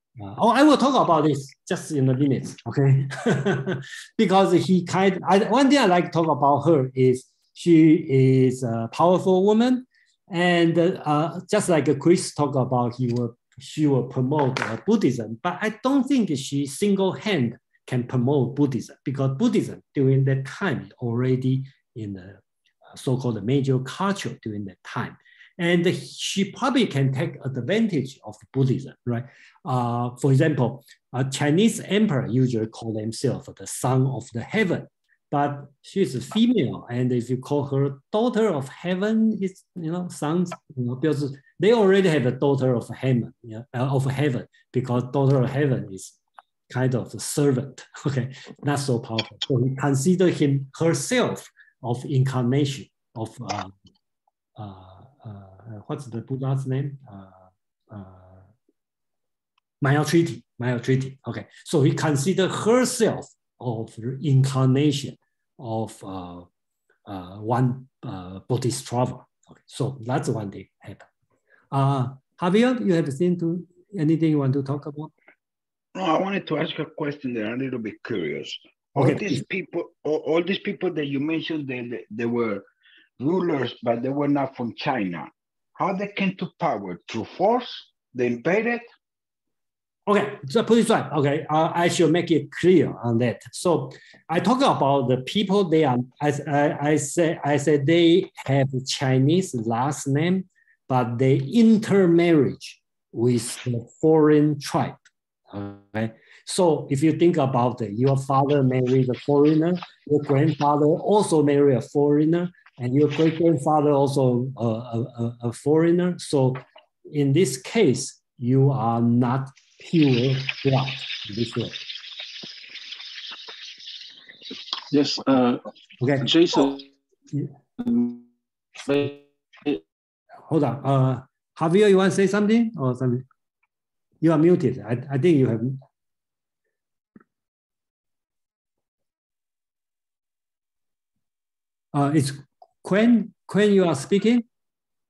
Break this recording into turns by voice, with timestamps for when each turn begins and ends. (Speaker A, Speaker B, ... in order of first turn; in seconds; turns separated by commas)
Speaker A: 0.2-22.4, Speaker A: 22.9-46.2, Speaker A: 46.7-53.7, Speaker A: 54.6-58.5, Speaker A: 59.8-66.5, Speaker A: 67.1-71.1, Speaker A: 71.7-75.1, Speaker B: 76.0-82.7, Speaker A: 79.0-79.5, Speaker B: 83.2-88.9, Speaker A: 90.1-121.8, Speaker C: 124.9-125.6, Speaker A: 126.0-126.7, Speaker C: 126.2-126.9, Speaker C: 127.8-128.2, Speaker C: 128.8-129.8, Speaker A: 130.5-133.2, Speaker A: 134.2-135.8, Speaker A: 141.9-144.4